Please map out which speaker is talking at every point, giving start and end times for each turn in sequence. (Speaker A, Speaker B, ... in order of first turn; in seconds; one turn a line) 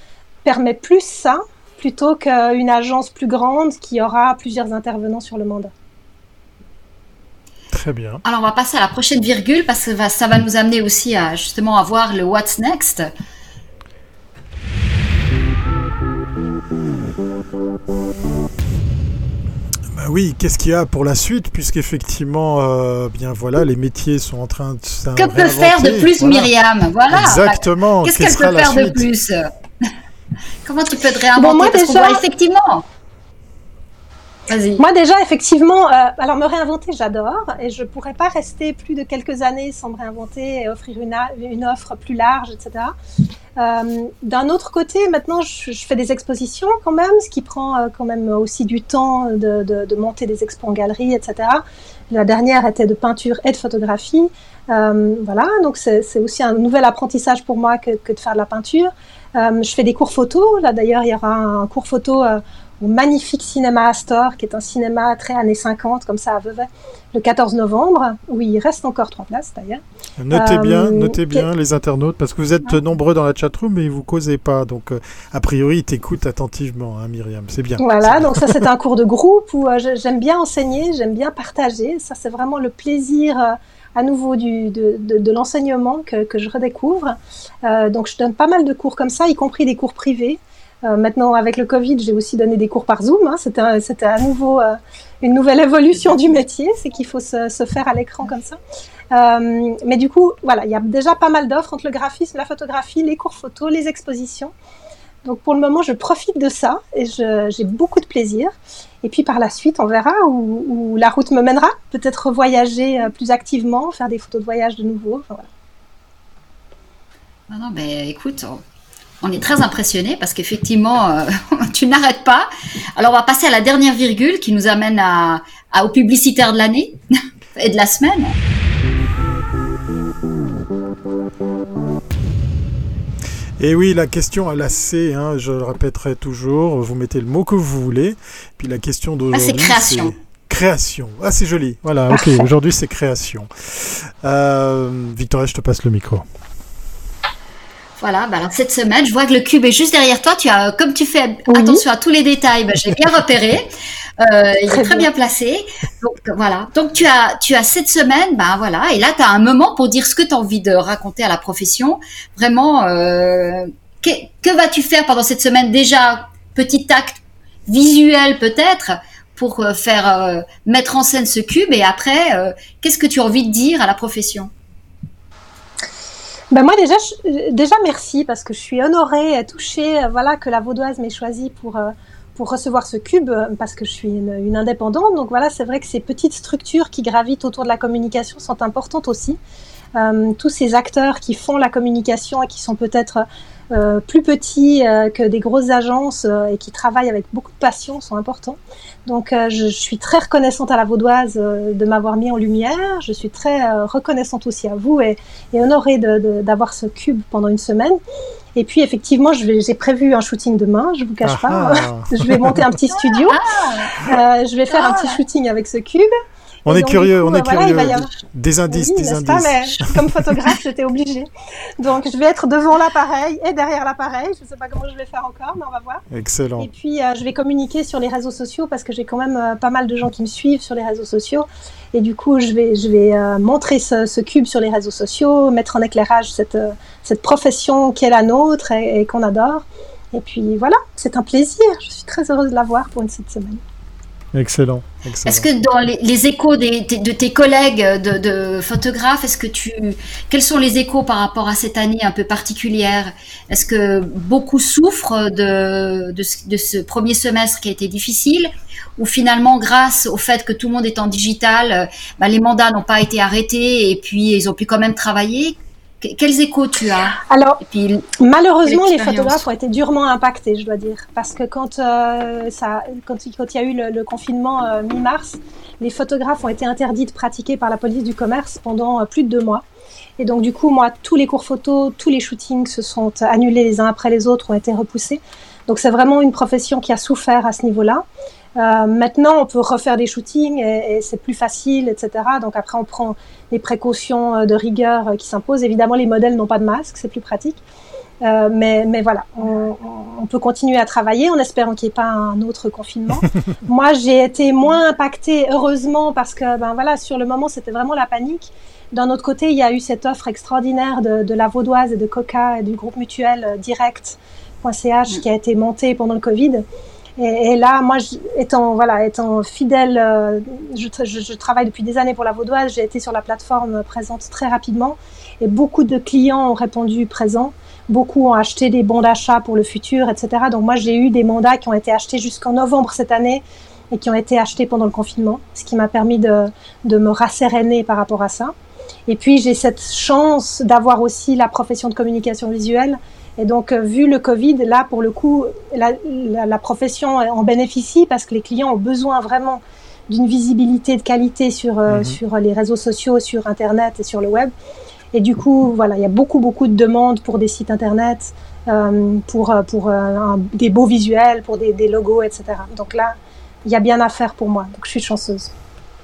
Speaker A: 0.4-5.7
Speaker B: 7.7-8.2
Speaker C: 8.2-13.1
Speaker B: 19.9-26.5
Speaker C: 25.1-29.9
Speaker B: 27.1-29.1
Speaker C: 30.6-32.8
Speaker A: 31.4-32.2
Speaker C: 34.5-34.8
Speaker A: 34.8-42.9
Speaker A: 43.6-71.5
Speaker B: 70.2-78.5
Speaker A: 77.8-98.6
Speaker A: 99.1-104.5
Speaker A: 105.2-115.5
Speaker C: 117.5-118.6
Speaker C: 119.2-127.0
Speaker C: 127.5-128.3
Speaker B: 133.6-146.2
Speaker C: 139.3-140.1
Speaker A: 142.1-142.5
Speaker C: 148.0-174.5
Speaker A: 151.5-151.8
Speaker A: 154.7-155.1
Speaker A: 176.5-189.4
Speaker A: 189.9-208.0
Speaker A: 208.5-213.4
Speaker B: 211.2-212.7
Speaker C: 212.9-214.1
Speaker A: 214.0-216.1
Speaker C: 214.7-215.2
Speaker A: 216.7-218.1
Speaker B: 216.7-220.3
Speaker A: 218.7-226.0
Speaker B: 226.1-226.7
Speaker A: 226.6-243.6
Speaker B: 244.3-245.5
Speaker C: 245.2-268.1
Speaker A: 267.2-267.6
Speaker A: 268.2-279.6
Speaker C: 268.6-269.4
Speaker A: 280.2-288.0
Speaker A: 288.6-297.6
Speaker A: 298.2-316.6
Speaker A: 317.2-338.5
Speaker A: 339.1-354.5
Speaker B: 351.9-352.2
Speaker A: 355.1-365.5